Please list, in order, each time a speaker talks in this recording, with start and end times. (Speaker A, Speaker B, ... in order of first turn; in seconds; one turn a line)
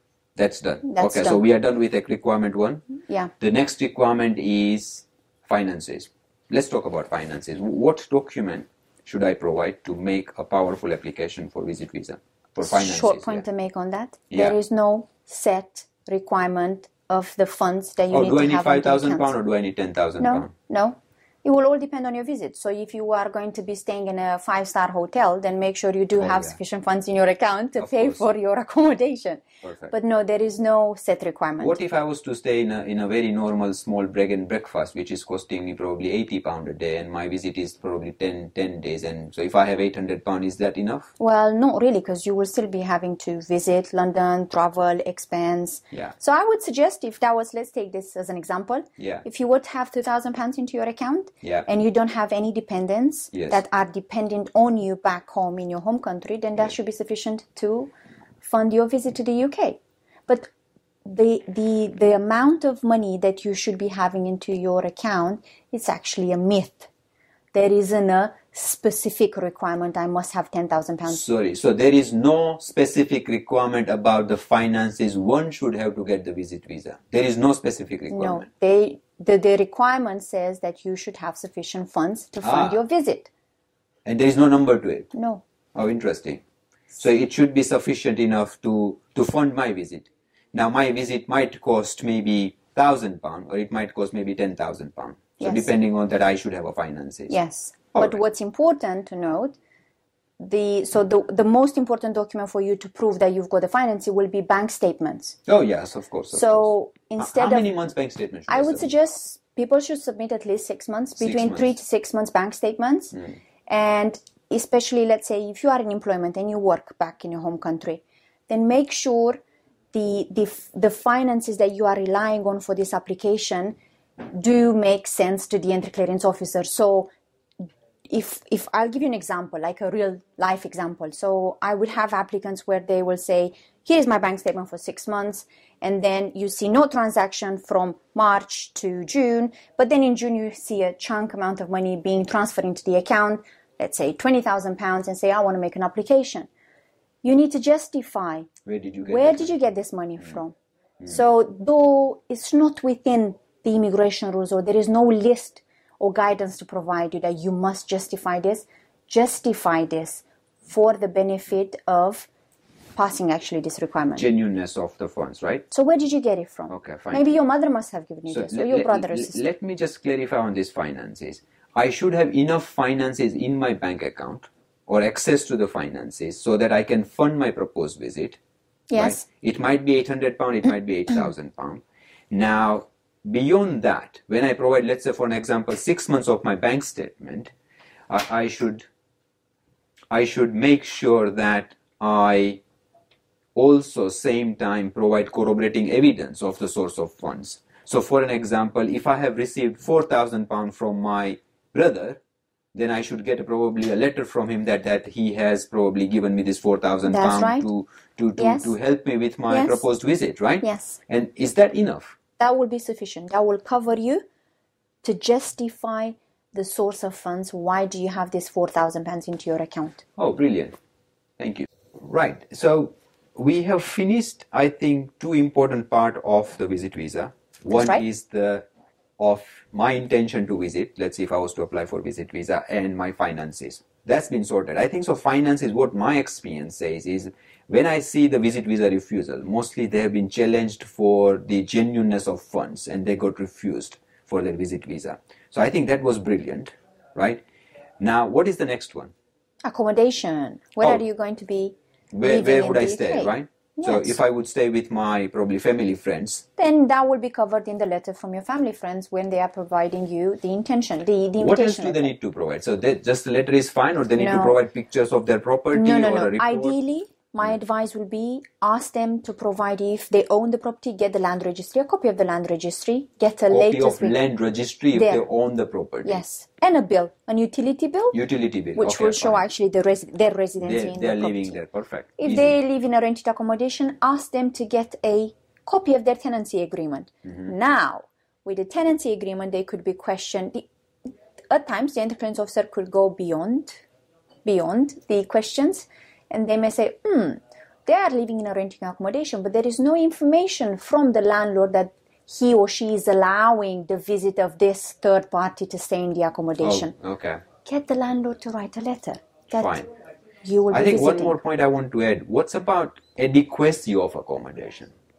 Speaker A: 0.4-2.9
Speaker B: 0.8-1.4
Speaker A: 3.4-13.4
Speaker B: 12.6-19.4
Speaker A: 14.3-14.6
Speaker A: 18.1-20.5
Speaker B: 20.2-31.8
Speaker A: 26.2-26.6
Speaker A: 27.8-28.2
Speaker A: 29.6-29.9
Speaker A: 31.6-41.1
Speaker B: 41.2-57.9
Speaker A: 49.0-49.2
Speaker A: 53.3-53.6
Speaker B: 58.4-60.5
Speaker B: 61.0-66.9
Speaker B: 67.5-71.3
Speaker A: 71.1-78.5
Speaker B: 78.1-83.3
Speaker A: 82.4-82.8
Speaker A: 84.1-85.1
Speaker B: 85.1-85.4
Speaker A: 85.8-86.4
Speaker A: 87.0-97.4
Speaker B: 95.4-95.7
Speaker B: 97.3-99.6
Speaker B: 100.4-105.4
Speaker A: 105.5-108.9
Speaker B: 106.3-107.7
Speaker B: 108.5-113.2
Speaker A: 111.2-111.7
Speaker B: 113.7-119.4
Speaker B: 119.9-123.8
Speaker B: 124.3-127.1
Speaker B: 128.1-146.5
Speaker B: 147.2-148.5
Speaker A: 148.7-149.6
Speaker B: 149.0-162.3
Speaker B: 163.0-164.3
Speaker A: 164.2-165.7
Speaker B: 165.7-169.4
Speaker A: 166.7-167.3
Speaker A: 168.3-178.4
Speaker B: 178.9-179.2
Speaker A: 178.9-187.5
Speaker A: 188.1-188.9
Speaker A: 190.1-192.6
Speaker A: 193.6-202.2
Speaker A: 202.7-212.2
Speaker B: 207.1-207.7
Speaker B: 208.4-208.8
Speaker B: 209.5-209.9
Speaker B: 210.6-211.0
Speaker B: 212.4-214.2
Speaker B: 215.0-220.0
Speaker A: 220.2-220.8
Speaker A: 221.4-228.7
Speaker B: 227.7-228.0
Speaker A: 229.2-247.4
Speaker A: 248.0-249.1
Speaker B: 249.6-254.2
Speaker A: 252.1-256.4
Speaker B: 256.6-262.1
Speaker A: 261.4-266.8
Speaker B: 264.2-264.6
Speaker B: 265.7-274.2
Speaker A: 273.5-276.2
Speaker B: 274.9-275.2
Speaker B: 276.0-278.2
Speaker A: 278.1-279.4
Speaker B: 278.8-281.6
Speaker A: 280.6-282.6
Speaker B: 282.2-290.7
Speaker A: 287.3-287.5
Speaker B: 291.5-293.8
Speaker B: 294.4-306.9
Speaker A: 306.6-307.4
Speaker B: 307.6-309.9
Speaker A: 309.5-309.9
Speaker B: 310.4-311.4
Speaker A: 310.7-314.9